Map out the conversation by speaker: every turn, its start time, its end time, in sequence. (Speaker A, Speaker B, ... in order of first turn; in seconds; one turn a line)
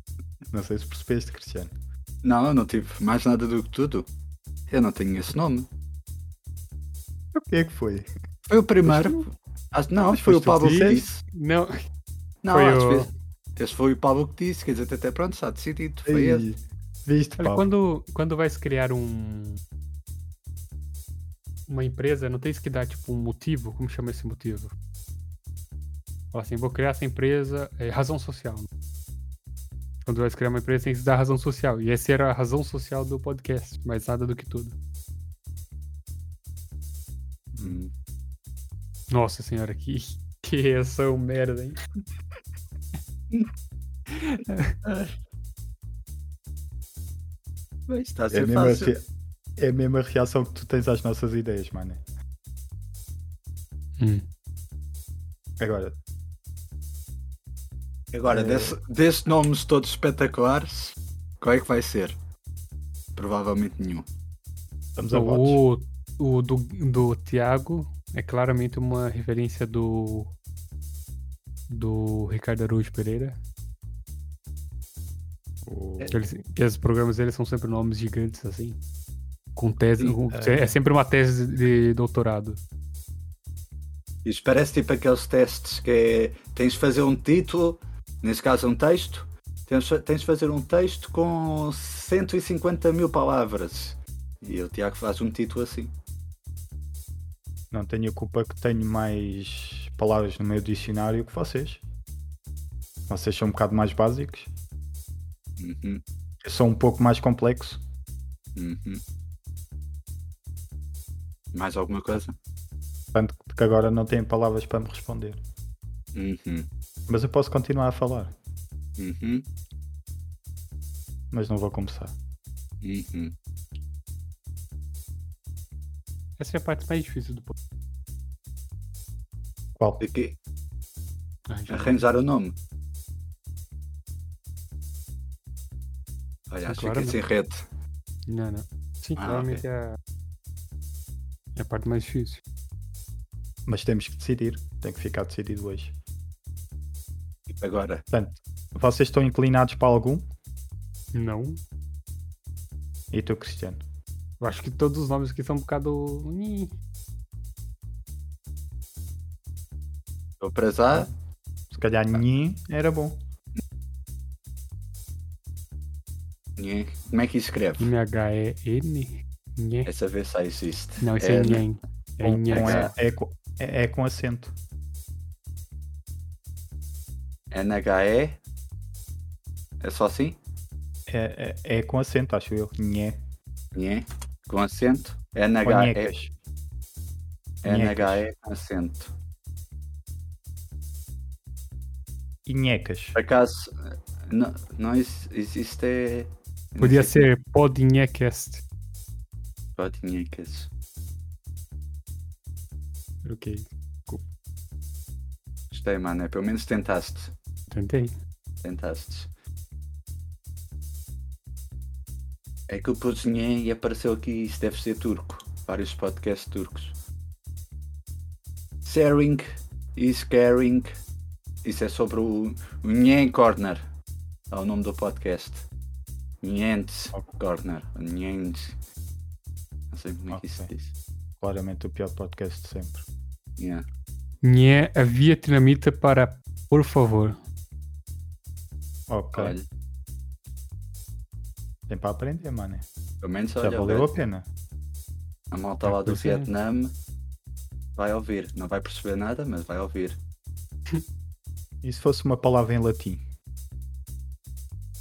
Speaker A: 0.5-1.7
Speaker B: 2.2-4.1
Speaker B: 4.7-5.7
Speaker A: 7.3-8.1
Speaker B: 8.5-11.2
Speaker A: 8.8-9.2
Speaker A: 10.1-11.1
Speaker C: 10.6-11.8
Speaker B: 12.4-16.4
Speaker C: 12.5-13.1
Speaker A: 16.1-17.7
Speaker C: 17.4-19.6
Speaker C: 21.7-24.7
Speaker C: 26.3-28.7
Speaker C: 30.0-34.8
Speaker A: 37.5-37.8
Speaker B: 37.6-37.9
Speaker C: 39.1-41.8
Speaker C: 44.2-44.8
Speaker B: 44.8-45.1
Speaker B: 47.9-48.9
Speaker A: 48.3-49.0
Speaker A: 49.6-52.0
Speaker C: 54.0-54.2
Speaker A: 55.6-55.9
Speaker B: 58.1-62.1
Speaker A: 58.3-58.8
Speaker B: 63.1-64.0
Speaker A: 65.0-65.6
Speaker C: 65.1-70.3
Speaker C: 71.7-73.4
Speaker A: 75.6-76.2
Speaker C: 76.1-78.8
Speaker C: 79.5-82.6
Speaker A: 80.3-80.7
Speaker B: 84.2-95.9
Speaker A: 97.7-101.8
Speaker A: 103.1-104.5
Speaker B: 105.6-106.0
Speaker A: 106.4-107.8
Speaker B: 108.5-109.0
Speaker B: 111.5-112.3
Speaker A: 113.1-115.4
Speaker B: 116.1-116.7
Speaker A: 117.1-118.3
Speaker B: 119.0-119.5
Speaker A: 121.3-122.1
Speaker B: 122.8-123.3
Speaker C: 126.4-127.5
Speaker B: 130.0-130.3
Speaker C: 131.5-132.0
Speaker B: 131.7-132.5
Speaker B: 136.5-137.6
Speaker C: 136.7-137.2
Speaker C: 138.3-140.0
Speaker B: 139.2-139.6
Speaker C: 141.6-142.4
Speaker A: 143.7-145.9
Speaker B: 147.5-148.0
Speaker A: 148.1-150.2
Speaker C: 151.1-151.6
Speaker A: 153.1-153.8
Speaker C: 154.4-156.7
Speaker B: 160.4-161.1
Speaker A: 161.7-163.2
Speaker B: 166.6-167.9
Speaker C: 167.8-169.9
Speaker B: 169.8-171.6
Speaker C: 171.0-172.9
Speaker A: 172.2-174.5
Speaker B: 172.5-172.9
Speaker B: 177.5-178.4
Speaker B: 179.8-180.4
Speaker A: 181.1-183.2
Speaker B: 183.7-186.1
Speaker A: 185.6-186.3
Speaker B: 187.6-189.1
Speaker A: 187.6-188.2
Speaker A: 192.4-193.2
Speaker B: 193.1-197.2
Speaker C: 196.8-198.6
Speaker B: 199.8-200.7
Speaker C: 203.2-204.2
Speaker B: 205.7-207.3
Speaker C: 207.7-208.1
Speaker B: 208.6-209.3
Speaker B: 212.7-216.9
Speaker B: 218.8-219.4
Speaker B: 219.9-220.9
Speaker B: 221.6-223.8
Speaker B: 224.5-225.6
Speaker B: 226.4-228.8
Speaker B: 229.9-230.9
Speaker A: 230.3-230.7
Speaker A: 231.4-233.0
Speaker B: 233.6-233.8
Speaker C: 234.4-237.4
Speaker A: 239.1-239.6
Speaker B: 239.3-239.7
Speaker A: 241.9-242.8
Speaker B: 243.2-244.1
Speaker A: 243.6-244.4
Speaker B: 245.5-246.9
Speaker C: 245.9-246.5
Speaker B: 247.9-250.2
Speaker A: 251.8-253.2